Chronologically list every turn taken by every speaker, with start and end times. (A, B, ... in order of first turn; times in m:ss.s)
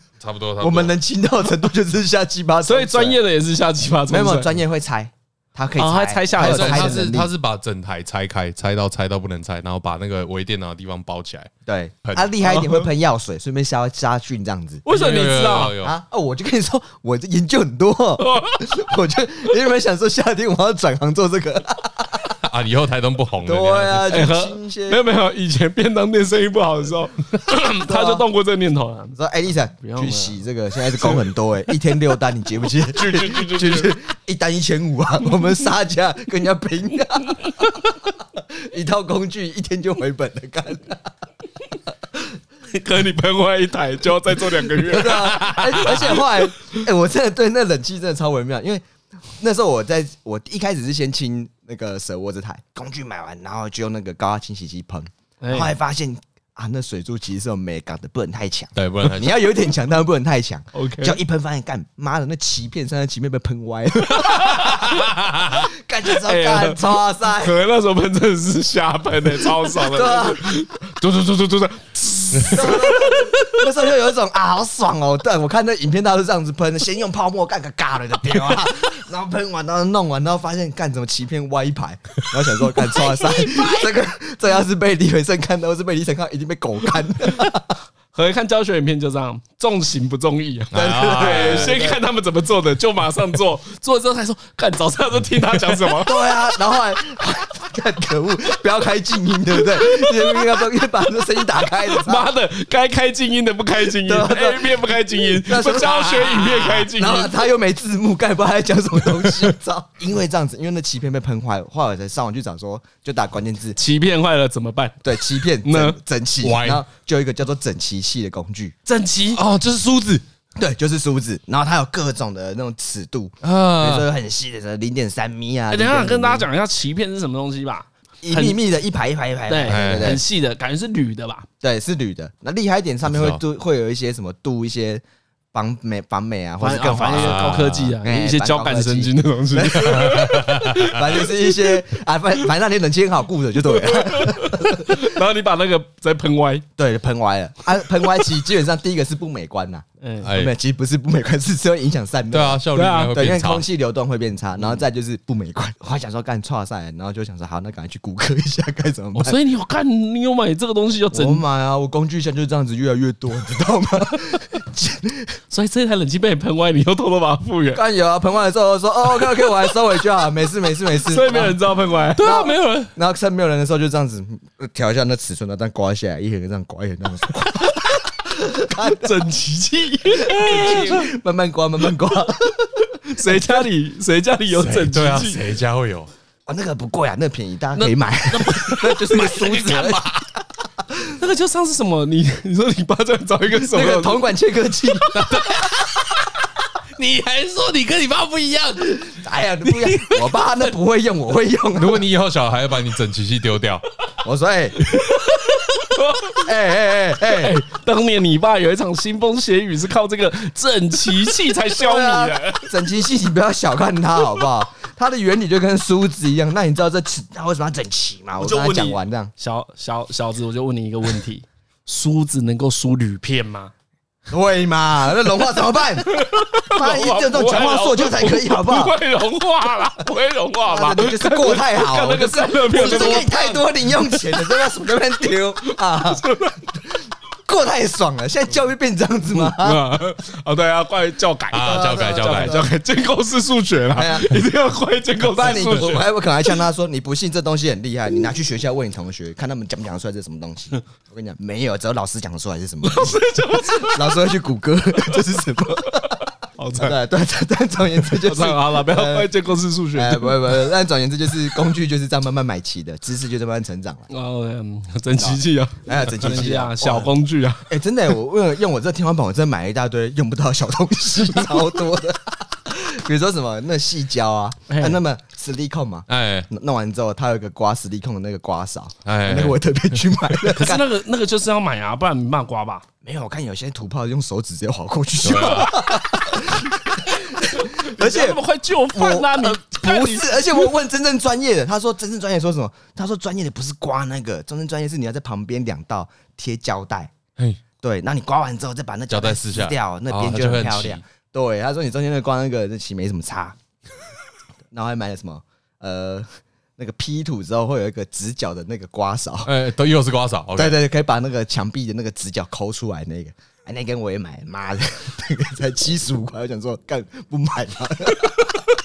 0:00.2-0:01.0 A
0:00.6-0:03.2 B
0:02.7-0:04.5 C
0:04.1-0:07.3 B
0:05.8-0:07.1 C
0:06.4-0:11.5 A
0:11.7-0:14.8 B
0:12.0-0:12.3 A
0:12.4-0:12.8 C
0:14.9-0:15.8 C
0:14.9-0:15.9 A
0:15.8-0:22.4 B
0:18.2-0:18.8 C
0:22.4-0:24.2 A
0:23.4-0:25.0 B
0:24.1-0:29.2 C
0:27.7-0:28.2 B
0:29.1-0:41.1 B
0:29.8-0:30.4 C
0:31.0-0:31.2 C
0:32.9-0:33.9 C
0:37.3-0:37.6 C
0:42.7-0:46.2 C
0:44.5-0:48.9 B
0:45.1-0:46.0 A
0:49.4-1:07.6 B
0:55.4-0:55.7 C
0:58.8-0:59.4 A
1:00.7-1:01.2 C
1:04.0-1:05.1 C
1:04.9-1:05.6 A
1:06.1-1:13.6 C
1:09.6-1:10.6 B
1:12.4-1:12.7 A
1:12.4-1:27.8 B
1:28.1-1:36.3 C
1:30.7-1:31.8 A
1:30.7-1:32.0 B
1:36.0-1:42.3 B
1:39.8-1:40.6 C
1:41.8-1:47.3 C
1:43.8-1:53.8 B
1:45.8-1:46.8 A
1:49.1-1:49.5 A
1:53.8-1:56.0 C
1:55.0-1:58.7 B
1:56.4-1:56.8 A
1:58.9-1:59.4 C
1:59.3-2:00.2 A
2:00.6-2:06.5 B
2:03.4-2:04.1 A
2:05.7-2:08.6 C
2:08.2-2:10.2 B
2:09.5-2:11.5 C
2:09.7-2:10.2 A
2:11.6-2:17.5 B
2:13.1-2:13.4 A
2:16.6-2:21.8 C
2:17.1-2:18.0 A
2:18.0-2:25.1 B
2:19.8-2:21.0 A
2:23.7-2:26.6 C
2:26.8-2:39.4 B
2:30.0-2:30.3 C
2:30.2-2:30.5 A
2:32.3-2:33.6 A
2:32.7-2:33.2 C
2:39.2-2:41.4 C
2:41.1-2:45.4 B
2:45.5-2:47.8 C
2:47.7-2:51.6 B
2:51.0-2:52.5 C
2:52.2-2:59.3 B
2:52.2-2:52.9 A
2:58.8-3:01.1 C
3:00.1-3:03.6 B
3:03.0-3:05.4 C
3:04.5-3:06.1 A
3:06.5-3:11.1 B
3:07.8-3:09.9 C
3:09.7-3:10.0 A
3:11.1-3:14.2 C
3:13.5-3:15.8 B
3:15.1-3:16.1 A
3:17.0-3:20.3 A
3:19.1-3:22.0 B
3:21.8-3:23.8 A
3:24.2-3:24.9 B
3:24.9-3:25.2 A
3:25.9-3:26.4 C
3:26.4-3:27.6 B
3:27.2-3:32.7 C
3:31.8-3:39.3 B
3:38.4-3:43.7 C
3:44.3-3:49.0 B
3:46.0-3:54.6 C
3:50.6-3:56.3 B
3:55.6-3:56.7 C
3:56.9-3:59.9 B
3:59.3-4:06.1 C
4:01.5-4:02.6 A
4:01.6-4:02.7 B
4:03.9-4:04.4 B
4:05.2-4:16.2 B
4:12.8-4:14.2 C
4:16.0-4:17.0 C
4:16.8-4:19.3 B
4:18.2-4:20.6 C
4:19.9-4:24.1 B
4:24.1-4:27.7 C
4:25.2-4:27.1 B
4:27.7-4:40.9 B
4:34.7-4:35.0 C
4:36.1-4:36.5 A
4:39.1-4:39.6 A
4:40.5-4:42.8 C
4:43.0-4:57.1 B
4:45.2-4:45.8 A
4:47.1-4:50.7 C
4:57.8-5:03.6 B
4:59.1-5:01.0 A
5:04.7-5:09.5 B
5:09.4-5:10.8 A
5:10.6-5:18.6 B